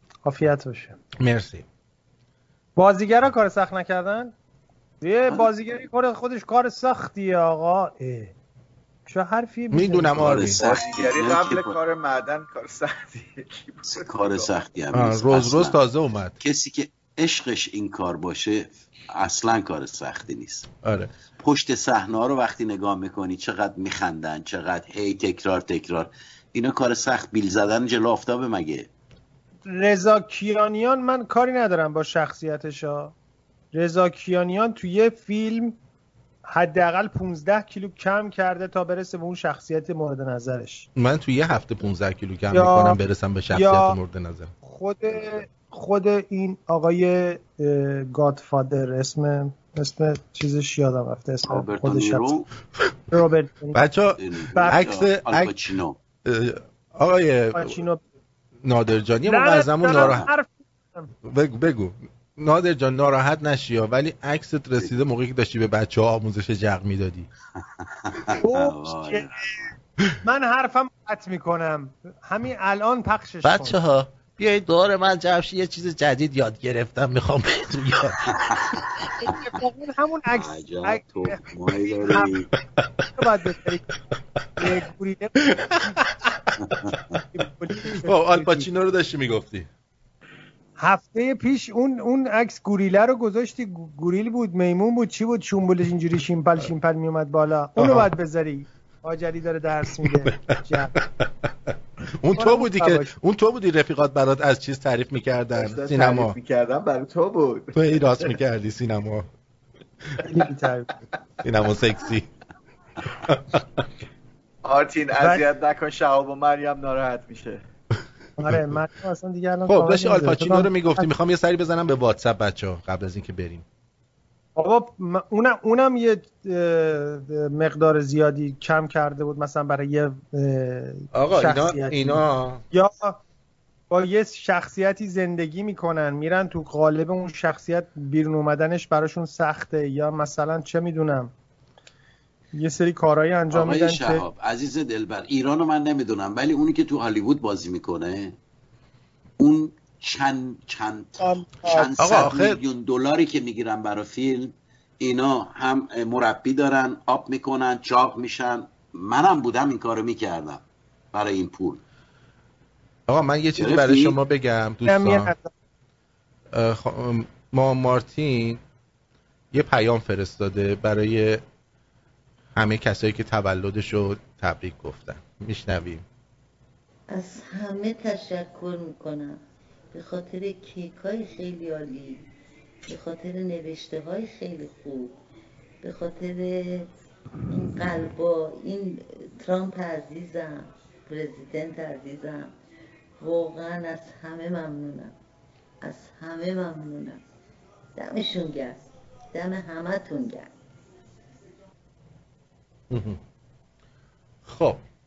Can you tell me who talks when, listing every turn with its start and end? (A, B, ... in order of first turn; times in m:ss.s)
0:00.2-0:01.0 A
0:01.2-0:01.6 B
0:02.8-0:04.3 A
0:05.0-0:08.3 A
0:09.1-0:10.4 A
0:09.7-0:10.6 B
0:10.2-0:11.8 C
0:10.5-0:14.5 D
0:13.8-0:15.8 C
0:14.9-0:16.4 B
0:16.4-0:20.7 C
0:20.8-0:21.1 B
0:21.4-0:28.9 C
0:29.6-0:33.1 A
0:33.7-0:35.8 A
0:36.4-0:40.9 A
0:41.0-0:44.5 B
0:42.5-0:43.0 A
0:43.5-0:44.0 A
0:44.6-0:52.2 A
0:51.5-0:52.5 C
0:53.1-0:53.8 A
0:53.7-0:55.5 B
0:54.2-0:56.0 C
0:56.2-0:57.8 B
0:57.5-0:58.0 A
0:58.6-1:00.3 B
0:59.2-1:01.1 A
0:59.9-1:00.3 C
1:01.2-1:07.3 B
1:07.8-1:09.3 C
1:08.4-1:09.3 A
1:10.2-1:13.8 A
1:13.4-1:18.3 B
1:18.3-1:18.8 C
1:19.2-1:22.3 A
1:20.3-1:22.5 C
1:23.2-1:23.8 A
1:24.6-1:25.6 A
1:26.6-1:26.9 C
1:27.3-1:28.7 A
1:28.0-1:29.7 B
1:30.8-1:40.9 A
1:37.8-1:38.1 B
1:42.2-1:46.4 B
1:42.4-1:43.1 A
1:45.5-1:48.3 D
1:47.7-1:49.3 B
1:50.2-1:50.9 A
1:51.4-1:52.3 B
1:53.2-1:53.6 B
1:54.6-1:57.6 D
1:58.4-2:01.1 A
1:59.7-2:03.6 B
2:04.6-2:13.2 A
2:11.1-2:12.6 B
2:13.9-2:21.3 A
2:22.5-2:24.2 A
2:23.5-2:28.4 C
2:29.4-2:40.6 C
2:31.2-2:31.9 A
2:32.0-2:32.6 B
2:41.1-2:41.8 C
2:43.1-2:45.3 B
2:43.6-2:44.2 C
2:44.8-2:45.5 A
2:46.5-2:48.6 B
2:49.5-2:51.4 B
2:52.6-2:56.0 B
2:57.1-2:59.4 E
2:59.9-3:02.2 E
3:02.9-3:05.1 E
3:05.8-3:06.9 E
3:07.5-3:12.5 E
3:13.2-3:15.1 E
3:15.8-3:17.2 E
3:18.0-3:18.8 E
3:19.3-3:20.5 E
3:22.9-3:23.2 B
3:24.4-3:24.8 B